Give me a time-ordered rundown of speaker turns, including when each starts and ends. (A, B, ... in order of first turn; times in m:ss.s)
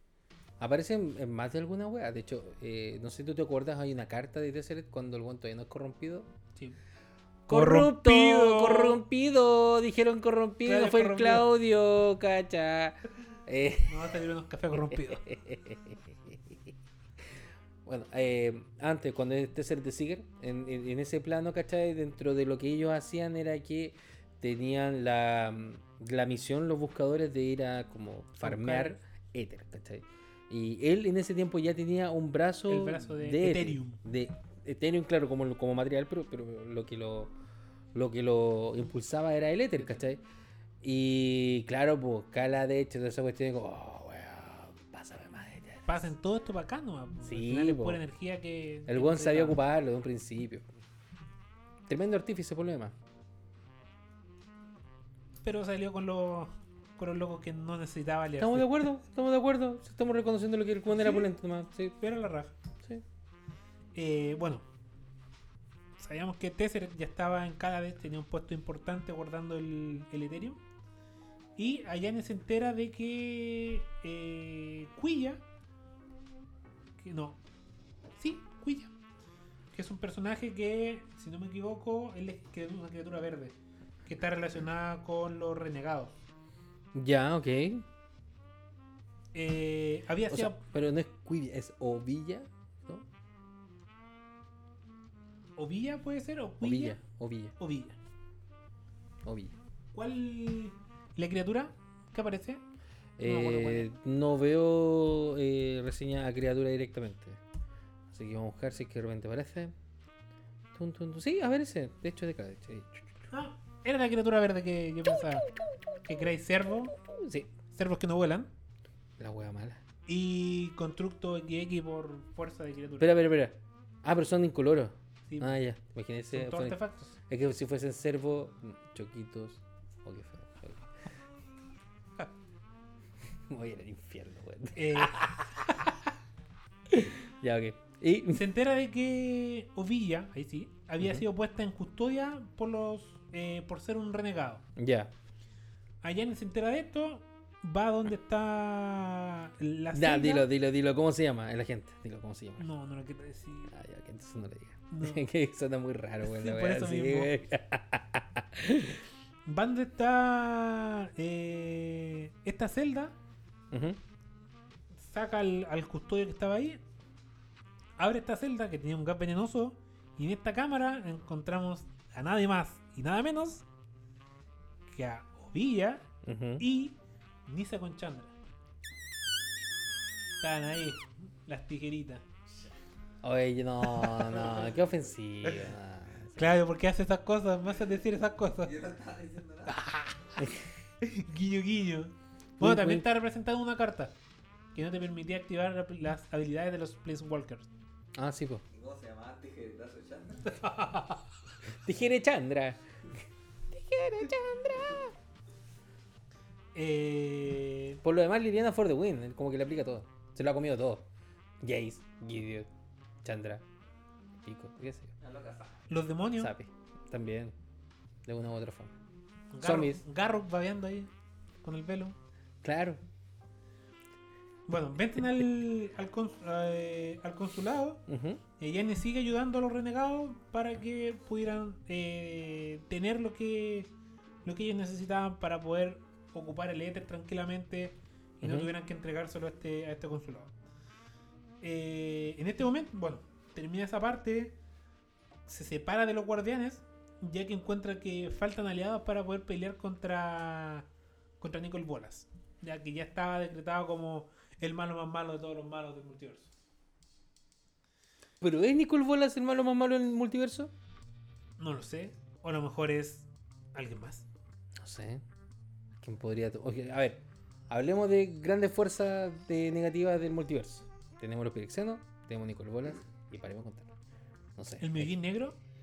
0:00.6-0:06.3 A
0:07.5-0:14.0 A
0:07.5-0:09.0 B
0:10.6-0:11.5 B
0:13.9-0:15.2 B
0:14.7-0:16.4 A
0:17.8-0:37.3 A
0:28.4-0:29.0 B
0:32.7-0:34.0 B
0:37.9-0:40.2 A
0:40.8-0:46.1 A
0:45.9-0:49.6 B
0:47.2-0:48.0 A
0:48.9-0:50.6 A
0:51.9-0:52.9 A
0:55.4-0:58.7 B
0:58.4-1:02.0 A
1:01.0-1:01.3 B
1:02.0-1:02.5 B
1:03.9-1:04.6 B
1:06.0-1:10.6 B
1:11.6-1:15.4 B
1:17.0-1:17.4 B
1:18.2-1:18.9 B
1:19.7-1:26.1 B
1:26.9-1:27.8 A
1:29.3-1:30.6 B
1:30.3-1:33.0 A
1:35.6-1:37.0 B
1:36.6-1:37.5 A
1:37.6-1:38.0 B
1:39.2-1:39.5 A
1:39.9-1:42.6 B
1:43.2-1:47.4 A
1:43.2-1:43.9 B
1:48.1-1:49.7 A
1:50.7-1:53.0 A
1:53.3-1:55.5 B
1:56.0-1:56.9 B
1:57.1-1:57.5 A
1:57.7-1:58.5 B
1:59.2-1:59.8 A
2:00.1-2:03.1 B
2:03.0-2:10.8 A
2:05.3-2:05.6 B
2:06.3-2:07.1 B
2:13.5-2:15.8 A
2:14.8-2:15.2 B
2:16.9-2:18.4 A
2:18.3-2:24.6 B
2:24.8-2:25.1 A
2:26.0-2:30.5 B
2:29.9-2:32.6 A
2:32.6-2:33.7 B
2:33.7-2:39.0 A
2:34.9-2:35.2 B
2:36.2-2:37.3 B
2:39.4-2:43.1 B
2:43.7-2:44.0 A
2:45.0-2:46.8 B
2:48.0-2:53.6 B
2:54.9-2:56.1 B
2:56.2-2:56.6 A
2:56.6-2:57.0 B
2:57.5-2:58.3 B
3:00.4-3:02.2 B
3:03.2-3:06.5 A
3:04.0-3:04.5 B
3:06.4-3:08.7 B
3:08.6-3:09.8 C
3:09.7-3:10.4 B
3:11.0-3:14.1 B
3:12.6-3:13.0 A
3:14.7-3:17.7 B
3:18.1-3:18.6 A
3:18.7-3:20.6 C
3:20.5-3:21.2 B
3:21.8-3:23.2 A
3:23.7-3:25.1 A
3:26.7-3:28.0 B
3:28.0-3:31.0 A
3:31.6-3:32.7 A
3:33.2-3:33.6 A
3:34.4-3:35.1 A
3:35.2-3:35.8 C
3:35.9-3:36.5 B
3:36.4-3:37.5 A
3:38.2-3:38.9 A
3:39.5-3:41.1 B
3:39.6-3:40.0 A
3:41.6-3:42.1 B
3:42.6-3:43.0 A
3:44.7-3:48.0 B
3:48.1-3:48.4 A
3:48.6-3:53.9 B
3:54.4-4:00.5 B
3:58.4-3:58.7 A
4:01.6-4:04.6 B
4:05.5-4:10.8 B
4:11.4-4:16.5 B
4:18.4-4:20.7 A
4:21.6-4:24.2 B
4:24.8-4:25.2 A
4:26.0-4:33.9 A
4:34.6-4:35.1 A
4:34.8-4:35.6 B